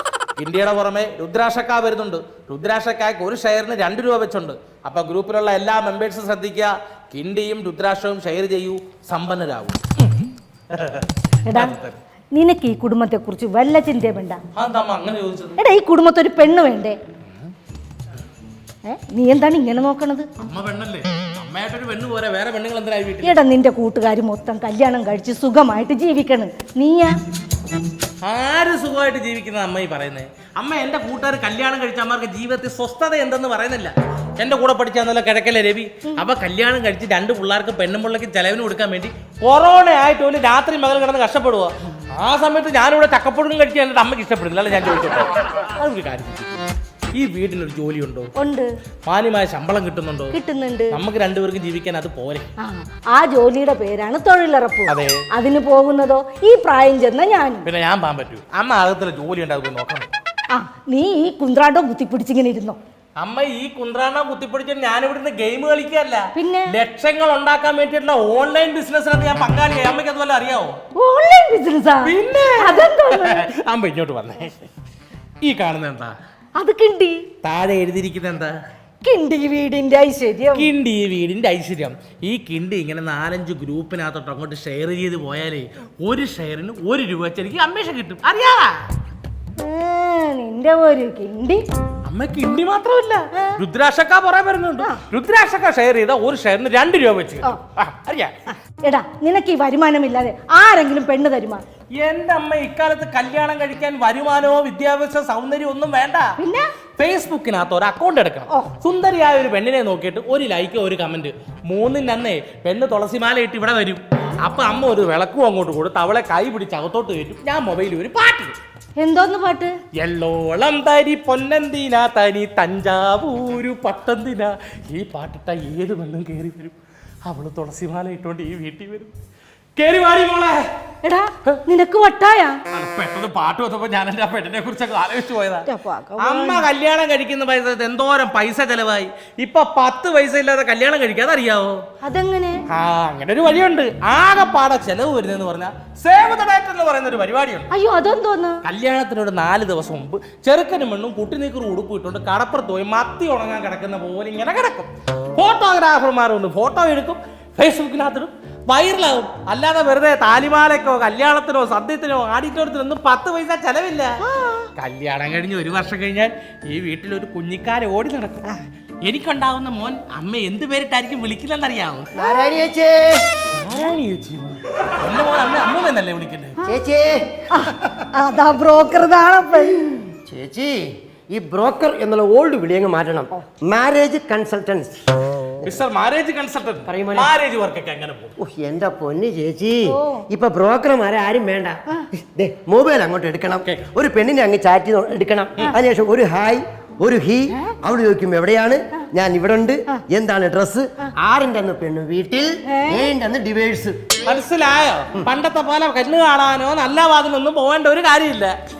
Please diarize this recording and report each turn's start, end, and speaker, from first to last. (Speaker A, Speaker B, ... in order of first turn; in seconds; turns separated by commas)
Speaker A: 0.4-10.2, Speaker A: 10.7-12.0, Speaker B: 11.4-11.8, Speaker B: 12.3-14.4, Speaker A: 14.5-15.6, Speaker B: 15.6-17.0, Speaker B: 18.8-20.3, Speaker A: 20.4-23.4, Speaker B: 23.2-27.1, Speaker A: 28.2-46.6, Speaker A: 47.1-48.3, Speaker B: 48.4-48.7, Speaker A: 49.1-50.4, Speaker B: 50.3-51.0, Speaker A: 50.9-52.5, Speaker B: 52.6-57.7, Speaker A: 54.9-55.2, Speaker A: 57.6-60.1, Speaker B: 60.5-62.8, Speaker A: 63.2-70.8, Speaker B: 66.3-66.7, Speaker B: 71.0-73.5, Speaker A: 72.0-74.7, Speaker A: 75.4-76.1, Speaker B: 76.6-77.2, Speaker A: 77.4-78.5, Speaker B: 79.0-80.7, Speaker A: 80.5-88.8, Speaker B: 89.6-91.6, Speaker A: 92.1-98.5, Speaker B: 98.8-101.6, Speaker A: 101.9-106.3, Speaker B: 106.4-106.7, Speaker A: 107.0-118.6, Speaker B: 119.0-119.8, Speaker A: 120.0-129.1, Speaker A: 129.8-130.7, Speaker B: 131.0-132.6, Speaker A: 132.7-141.8, Speaker B: 135.7-136.7, Speaker B: 142.0-142.6, Speaker A: 142.7-147.7, Speaker B: 147.7-148.6, Speaker A: 148.6-164.2, Speaker B: 164.2-164.7, Speaker A: 164.8-168.5, Speaker A: 169.0-172.1, Speaker C: 172.2-173.3, Speaker A: 173.5-176.6, Speaker C: 176.7-177.4, Speaker B: 177.5-180.0, Speaker C: 180.2-185.1, Speaker A: 185.6-188.4, Speaker C: 186.9-187.3, Speaker C: 188.4-204.0, Speaker B: 189.8-190.2, Speaker B: 202.7-203.1, Speaker A: 204.2-208.6